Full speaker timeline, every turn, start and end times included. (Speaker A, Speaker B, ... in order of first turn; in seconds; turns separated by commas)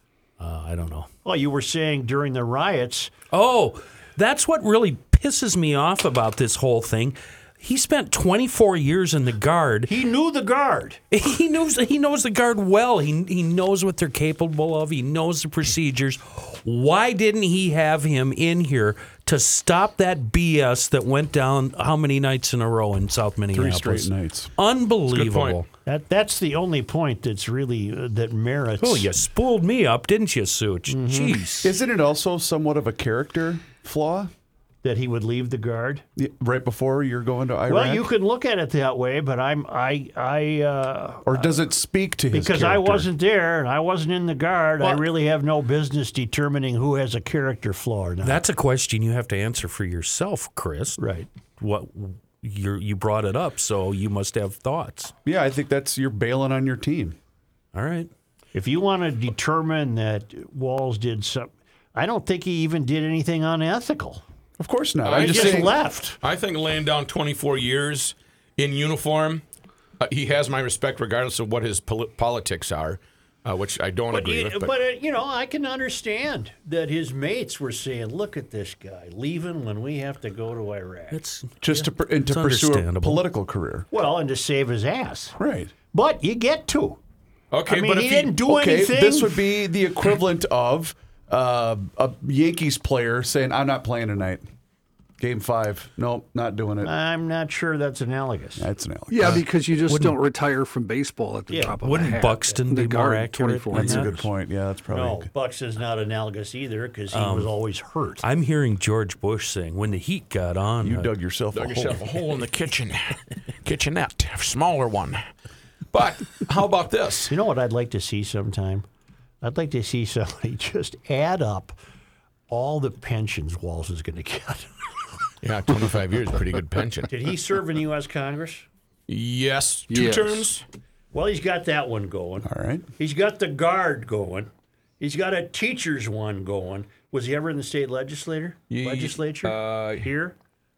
Speaker A: 0.4-1.1, Speaker B: 1.2-3.1, Speaker A: 3.3-9.9, Speaker B: 9.9-11.0, Speaker A: 11.1-25.7, Speaker C: 23.5-24.5, Speaker D: 25.1-25.6, Speaker B: 25.9-29.1, Speaker A: 28.8-31.7, Speaker B: 30.9-31.4, Speaker C: 31.6-34.3, Speaker B: 34.8-36.0, Speaker C: 36.1-38.1, Speaker B: 37.7-41.5, Speaker C: 41.2-43.1, Speaker B: 42.3-48.4, Speaker A: 48.2-51.0, Speaker B: 51.0-51.3, Speaker A: 51.6-55.1, Speaker C: 55.2-57.2, Speaker A: 57.7-58.1, Speaker B: 58.5-64.2, Speaker C: 64.6-65.7, Speaker D: 65.0-69.4, Speaker B: 65.1-66.2, Speaker D: 70.0-74.7, Speaker B: 74.1-81.2, Speaker A: 81.1-83.2, Speaker C: 81.6-83.9, Speaker B: 83.9-85.3, Speaker C: 85.4-85.7, Speaker B: 85.9-87.0, Speaker D: 87.5-88.3, Speaker B: 87.7-89.5, Speaker C: 88.5-94.5, Speaker C: 95.2-96.9, Speaker B: 96.8-98.7, Speaker C: 98.6-99.4, Speaker E: 99.1-104.2, Speaker A: 99.9-100.2, Speaker B: 101.5-101.8, Speaker A: 101.8-104.2, Speaker C: 103.7-105.3, Speaker B: 104.9-108.2, Speaker A: 107.1-107.5, Speaker A: 108.2-111.1, Speaker C: 110.8-112.0, Speaker D: 111.5-115.3, Speaker D: 115.9-117.3, Speaker B: 117.3-118.8, Speaker B: 119.4-121.8, Speaker B: 122.5-125.0, Speaker D: 125.4-127.1, Speaker B: 127.1-128.7, Speaker D: 129.1-130.6, Speaker E: 129.9-130.5, Speaker B: 131.1-140.3, Speaker C: 132.4-132.9, Speaker D: 138.7-140.1